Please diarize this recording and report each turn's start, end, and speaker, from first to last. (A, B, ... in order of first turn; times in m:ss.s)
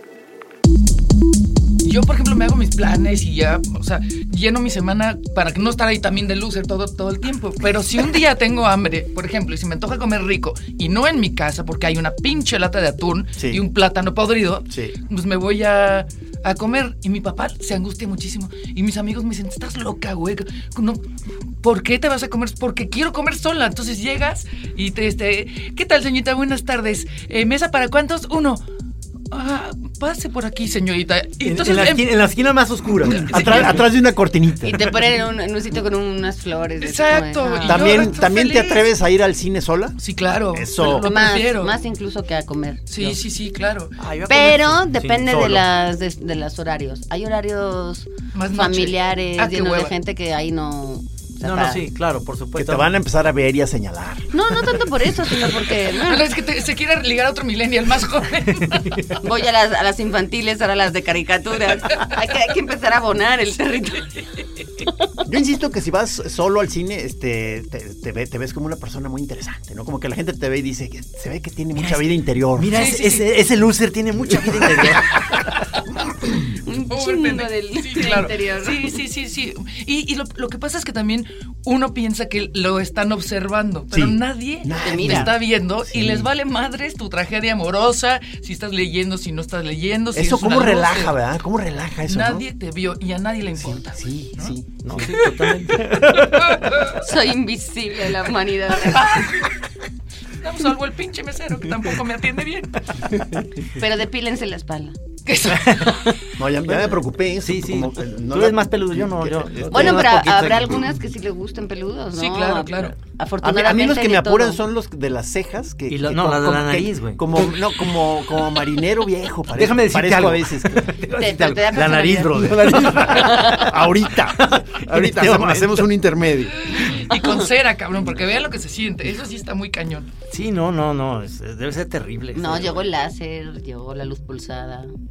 0:01.8-0:21.0 A
0:13.4-0:13.6 B
0:14.7-0:15.0 B
0:21.6-0:28.6 A
0:29.3-0:32.1 A
0:31.4-0:33.9 C
0:33.0-0:33.8 A
0:33.2-0:34.9 B
0:34.6-0:38.1 D
0:36.8-0:38.9 A
0:37.6-0:40.0 B
0:40.0-0:41.8 A
0:40.5-0:41.1 B
0:40.8-0:43.2 D
0:42.9-0:44.0 A
0:44.0-0:45.6 C
0:44.3-0:51.8 D
0:48.3-0:49.9 A
0:51.4-0:52.9 C
0:52.6-0:54.3 B
0:54.3-0:56.3 D
0:55.8-0:59.1 A
0:58.7-0:59.1 C
0:59.2-1:04.3 D
1:05.2-1:12.8 B
1:11.8-1:15.5 C
1:12.7-1:13.3 A
1:16.4-1:18.9 D
1:16.9-1:31.2 A
1:23.9-1:26.3 B
1:24.8-1:25.3 D
1:30.1-1:32.5 B
1:32.1-1:37.0 A
1:33.6-1:35.1 B
1:34.8-1:36.9 C
1:37.0-1:39.3 D
1:38.7-1:39.6 A
1:40.4-1:42.8 A
1:43.7-1:45.0 D
1:45.3-1:46.1 A
1:45.5-1:46.2 C
1:46.4-1:50.5 B
1:47.4-1:50.9 C
1:49.7-1:54.6 D
1:52.1-1:53.0 A
1:53.4-2:00.8 B
1:55.9-1:58.0 C
1:59.5-2:05.9 C
2:01.0-2:03.7 D
2:02.8-2:06.8 B
2:06.5-2:10.1 A
2:10.3-2:12.9 C
2:12.3-2:14.9 D